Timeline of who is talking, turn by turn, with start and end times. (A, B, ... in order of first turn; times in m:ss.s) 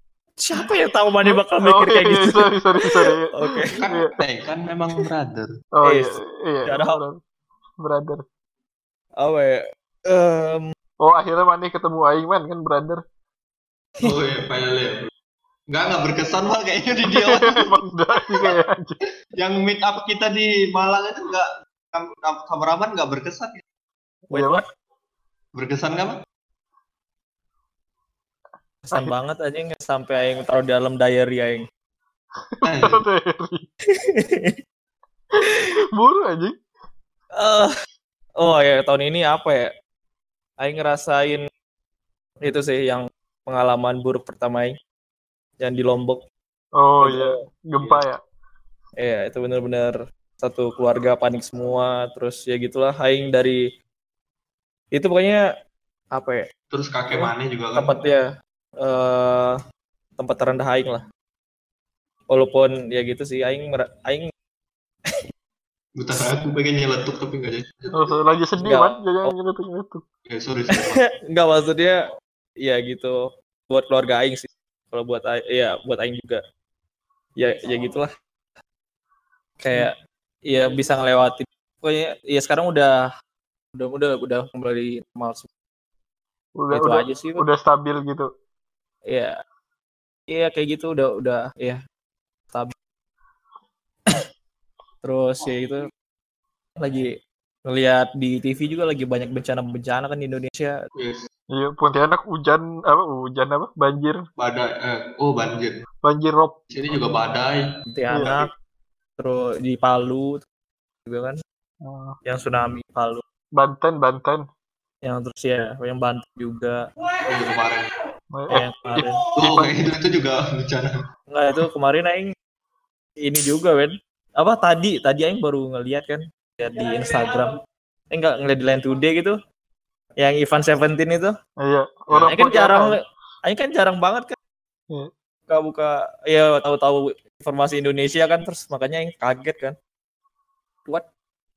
0:00.4-0:03.8 A
0:01.2-0:04.1 B
0:03.7-0:05.5 C
0:05.8-0:07.2 B
0:05.8-0:06.1 A
0:06.6-0:07.0 A
0:07.8-0:08.2 B
0:09.2-0:10.7 A
0:11.0-0:13.0 B
0:14.0-0:15.1 C
0:15.7-0:17.8 C
0:17.1-0:19.0 B
0:19.4-0:23.6 C
0:24.3-0:24.6 B
0:24.3-0:24.6 A
0:25.5-0:26.2 C
0:28.8-0:31.6 A
0:32.4-0:33.6 B
0:32.6-0:33.0 C
0:33.9-0:34.6 A
0:35.4-0:35.7 A
0:35.9-0:36.5 B
0:37.4-0:37.7 A
0:38.4-0:39.7 A
0:40.6-0:41.4 A
0:42.4-0:44.8 A
0:45.6-0:46.2 A
0:46.8-0:48.2 B
0:47.0-0:48.0 A
0:49.0-0:53.6 A
0:54.9-0:55.4 A
0:56.1-0:56.4 A
0:56.7-0:57.9 C
0:57.1-0:58.2 A
0:58.8-0:59.6 A
1:00.2-1:01.0 A
1:02.3-1:04.3 A
1:06.0-1:08.2 C
1:07.9-1:10.0 B
1:08.6-1:09.3 A
1:10.3-1:11.0 C
1:10.7-1:12.0 A
1:12.6-1:16.4 A
1:17.4-1:18.1 A
1:19.6-1:19.9 A
1:20.5-1:23.1 A
1:23.7-1:25.5 A
1:26.6-1:28.3 B
1:26.7-1:27.4 A
1:29.1-1:29.3 A
1:30.3-1:31.8 A
1:35.0-1:35.9 A
1:36.8-1:40.8 A
1:40.9-1:41.2 C
1:41.5-1:44.2 B
1:44.4-1:45.8 C
1:46.0-1:46.6 B
1:46.7-1:47.7 C
1:47.9-1:48.5 A
1:49.2-1:50.4 A
1:51.1-1:51.4 A
1:51.8-1:52.2 B
1:52.2-1:53.2 A
1:53.6-1:54.4 B
1:55.0-1:56.9 A
1:57.3-1:57.9 C
1:58.3-1:59.7 B
1:58.5-1:59.2 A
1:59.4-2:01.0 C
2:01.3-2:02.3 A
2:03.2-2:07.6 A
2:08.1-2:09.4 A
2:10.2-2:11.3 A
2:11.6-2:13.0 B
2:12.1-2:12.4 C
2:12.3-2:14.3 A
2:15.5-2:19.8 A